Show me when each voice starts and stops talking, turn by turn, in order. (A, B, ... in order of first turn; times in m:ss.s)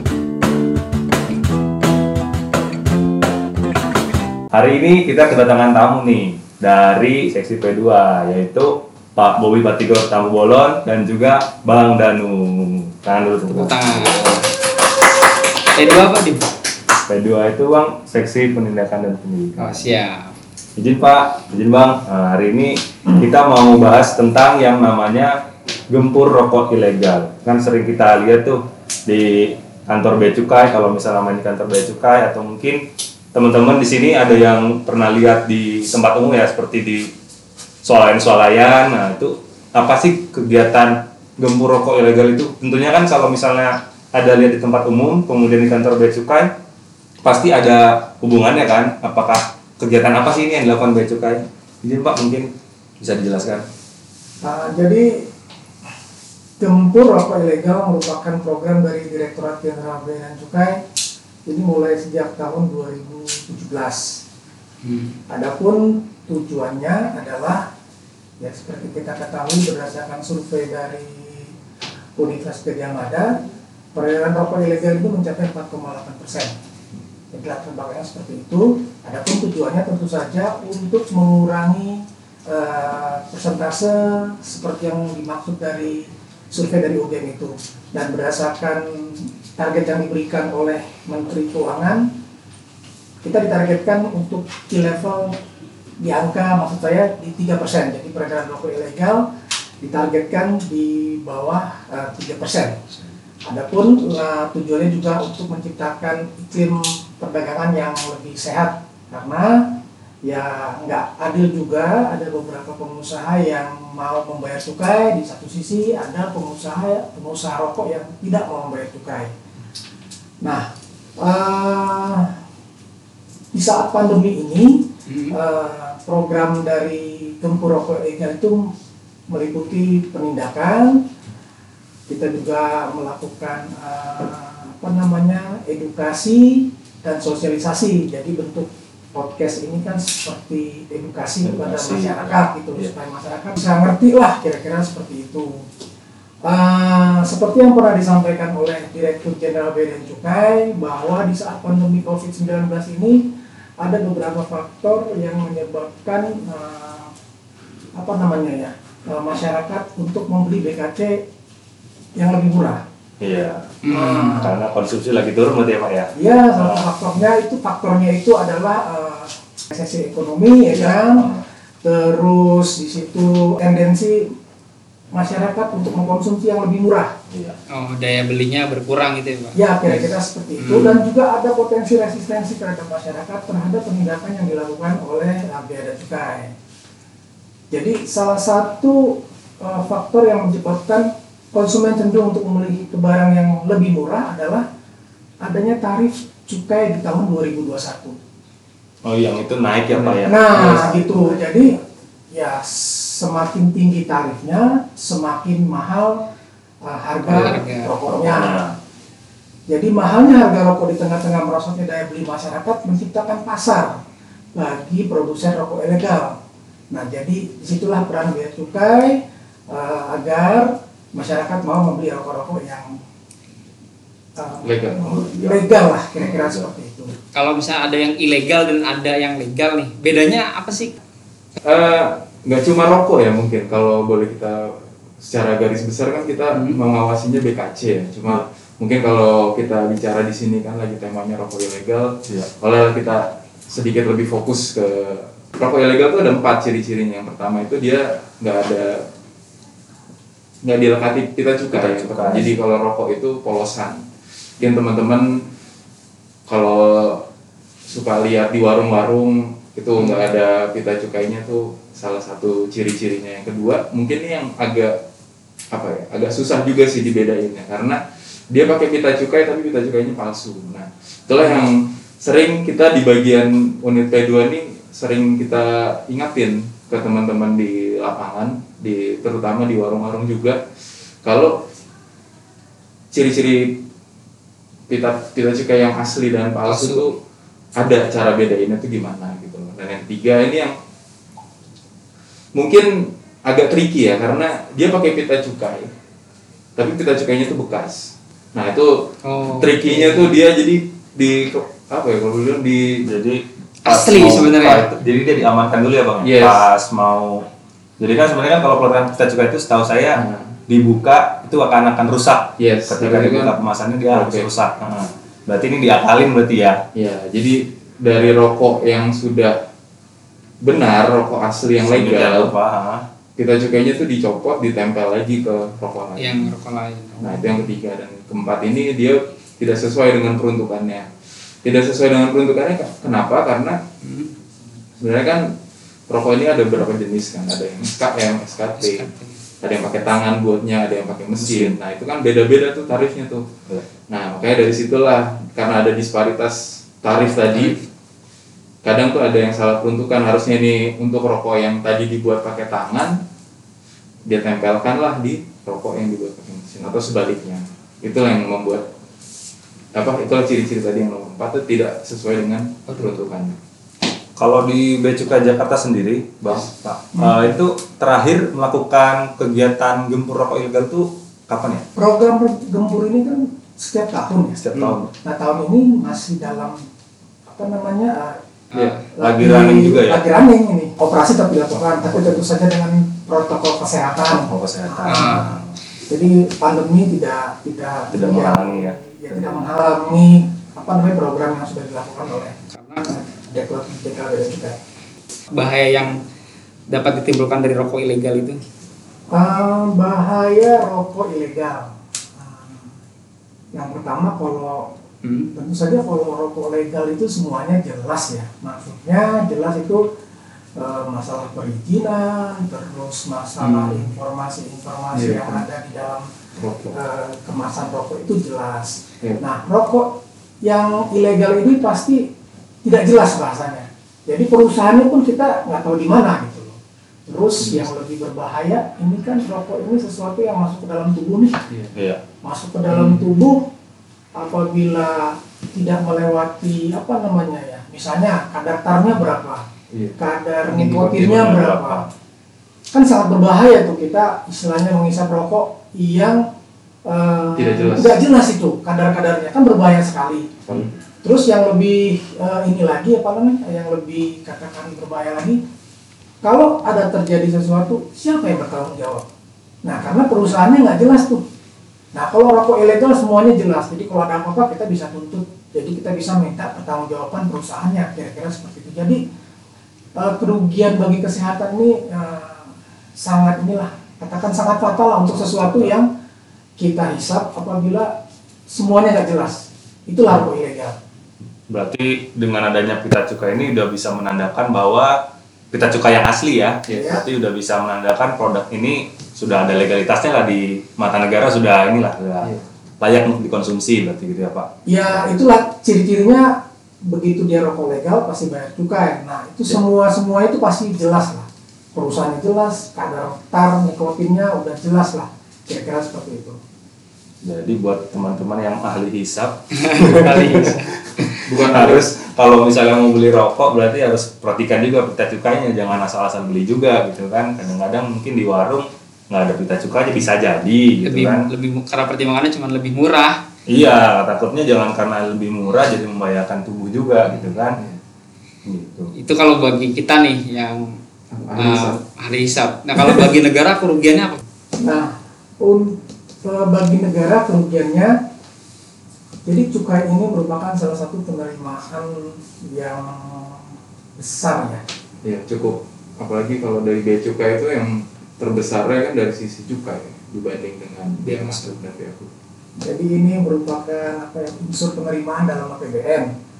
0:04.5-0:14.4 A
0:13.5-0:14.5 B
0:15.8-0:16.5 B
0:17.0-0:19.8 A
0:19.6-0:20.3 B
0:20.8-0:37.1 A
0:37.8-0:46.5 A
0:47.2-0:53.7 A
0:54.4-0:55.3 C
0:56.6-1:00.8 C
1:01.4-1:04.2 C
1:04.8-1:05.2 B
1:05.3-1:07.7 C
1:08.4-1:11.5 C
1:12.2-1:13.4 C
1:13.9-1:16.5 C
1:17.3-1:32.1 C
1:33.2-1:35.4 C
1:36.0-1:39.3 C
1:39.8-1:42.8 C
1:43.4-1:59.3 C
2:00.4-2:00.7 C
2:01.2-2:02.4 C
2:03.5-2:08.7 C
2:05.1-2:05.4 B
2:09.3-2:11.0 C
2:12.1-2:25.7 C
2:21.4-2:22.9 A
2:26.4-2:37.1 C
2:37.9-2:41.2 C
2:42.2-2:42.8 C
2:43.2-2:43.8 A
2:43.8-2:44.5 B
2:43.8-2:44.5 C
2:44.3-2:46.9 A
2:46.1-2:54.3 C
2:50.7-2:51.4 A
2:55.1-2:57.1 C
2:57.3-2:57.6 A
2:57.7-3:01.0 B
2:59.5-3:06.5 C
3:07.7-3:14.6 C
3:15.4-3:18.2 C
3:19.0-3:21.8 A
3:19.9-3:20.2 D
3:20.2-3:21.8 C
3:22.3-3:26.3 C
3:26.8-3:28.7 C
3:27.2-3:27.9 B
3:28.2-3:28.8 A
3:29.7-3:34.0 C
3:34.5-3:36.4 C
3:36.9-3:43.0 C
3:44.3-3:47.1 C
3:44.6-3:45.1 D
3:45.0-3:45.6 A
3:46.2-3:46.7 A
3:47.3-3:51.0 B
3:51.6-4:09.0 D
3:56.5-3:56.8 B
4:10.6-4:14.0 D
4:11.7-4:12.5 A
4:14.6-4:15.4 D
4:16.5-4:17.2 D
4:17.9-4:25.0 D
4:20.0-4:20.3 B
4:25.7-4:40.6 D
4:41.2-4:41.6 D
4:43.1-4:43.8 D
4:44.9-4:47.2 D
4:46.6-4:47.1 B
4:47.8-4:50.8 D
4:52.5-4:55.9 D
4:56.8-5:03.0 D
4:59.2-5:00.3 B
5:03.0-5:07.5 A
5:03.8-5:04.8 B
5:06.2-5:06.6 D
5:08.0-5:16.8 A
5:10.1-5:10.6 D
5:12.6-5:13.5 D
5:14.1-5:14.5 D
5:16.9-5:19.6 D
5:20.6-5:22.5 D
5:21.8-5:23.0 A
5:23.4-5:26.5 D
5:26.2-5:27.7 B
5:27.2-5:31.1 D
5:31.6-5:33.8 D
5:34.0-5:34.3 B
5:35.0-5:35.5 D
5:36.1-5:39.1 D
5:38.8-5:39.4 B
5:39.6-5:43.4 D
5:41.4-5:41.8 A
5:44.1-5:47.8 D
5:47.5-5:47.8 B
5:48.8-5:53.2 D
5:54.2-5:58.9 D
5:59.9-6:03.6 D
6:02.9-6:03.1 B
6:04.4-6:11.9 A
6:07.1-6:07.5 C
6:11.9-6:14.6 C
6:14.6-6:15.1 A
6:15.2-6:16.8 C
6:17.5-6:18.4 C
6:18.7-6:19.0 B
6:18.7-6:19.0 D
6:19.1-6:34.8 C
6:19.2-6:20.2 A
6:24.3-6:25.7 A
6:25.1-6:25.6 B
6:28.1-6:29.6 A
6:32.7-6:33.2 B
6:35.5-6:36.2 B
6:36.9-6:38.6 B
6:39.3-6:42.9 C
6:43.7-6:44.9 C
6:45.2-6:45.5 B
6:45.5-6:50.0 C
6:50.7-6:56.3 C
6:53.6-6:54.1 B
6:55.1-6:55.6 D
6:56.6-6:56.9 D
6:56.9-7:02.3 C
7:02.8-7:11.6 C
7:07.6-7:07.9 D
7:11.9-7:12.2 A
7:12.4-7:13.7 C
7:12.9-7:13.2 B
7:14.3-7:19.6 C
7:19.9-7:20.2 D
7:20.2-7:22.0 C
7:20.7-7:21.0 B
7:20.7-7:22.1 A
7:22.9-7:26.5 C
7:27.0-7:30.5 C
7:27.5-7:28.2 D
7:30.7-7:30.9 D
7:31.2-7:35.6 C
7:36.4-7:39.3 C
7:39.8-7:41.4 C
7:42.1-7:49.2 C
7:50.1-7:56.1 C
7:55.4-7:55.9 A
7:56.8-7:58.2 C
7:58.7-8:01.0 C
8:01.7-8:15.3 A
8:06.9-8:07.2 D
8:06.9-8:07.2 C
8:14.8-8:26.6 C
8:27.4-8:41.5 A
8:29.8-8:30.9 B
8:31.4-8:32.0 D
8:41.0-8:43.4 B
8:43.7-8:47.8 A
8:48.6-8:49.1 A
8:49.2-8:51.0 B
8:51.3-8:52.0 D
8:51.5-8:54.4 B
8:53.0-8:53.3 D
8:54.8-8:58.2 C
8:59.4-9:04.8 C
9:05.2-9:12.3 D
9:11.2-9:11.7 B
9:12.8-9:16.3 C